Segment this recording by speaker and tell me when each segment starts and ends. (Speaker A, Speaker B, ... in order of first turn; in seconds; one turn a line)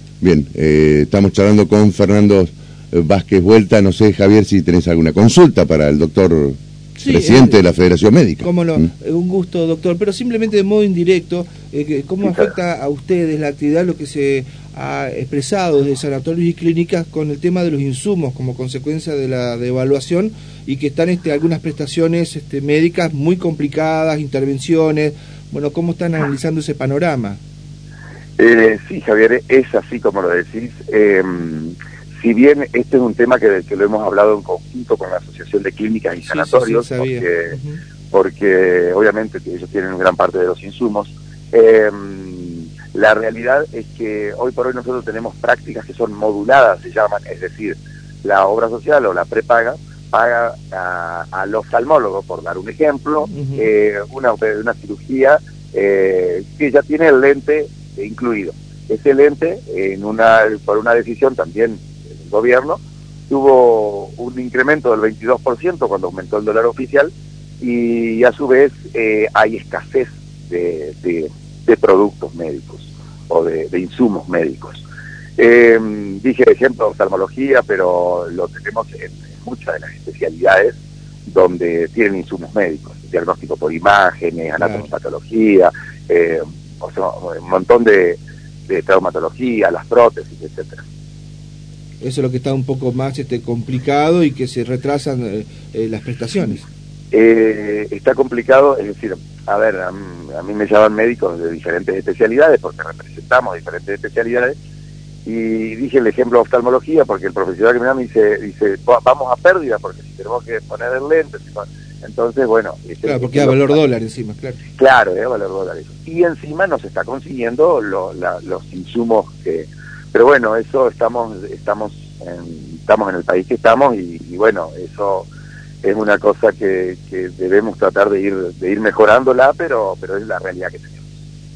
Speaker A: 0.2-8.9
Speaker B: 7.0-7.5
Speaker B: 8.4-27.4
Speaker C: 12.2-12.5
Speaker C: 28.4-37.5
Speaker B: 36.2-37.8
Speaker C: 38.1-67.1
Speaker B: 53.3-53.7
Speaker C: 67.6-74.8
Speaker C: 75.4-80.8
Speaker C: 81.3-90.8
Speaker B: 84.6-84.9
Speaker B: 92.0-96.6
Speaker C: 97.1-104.5
Speaker C: 105.2-113.8
Speaker B: 113.0-114.6
Speaker C: 114.8-125.3
Speaker C: 125.8-131.1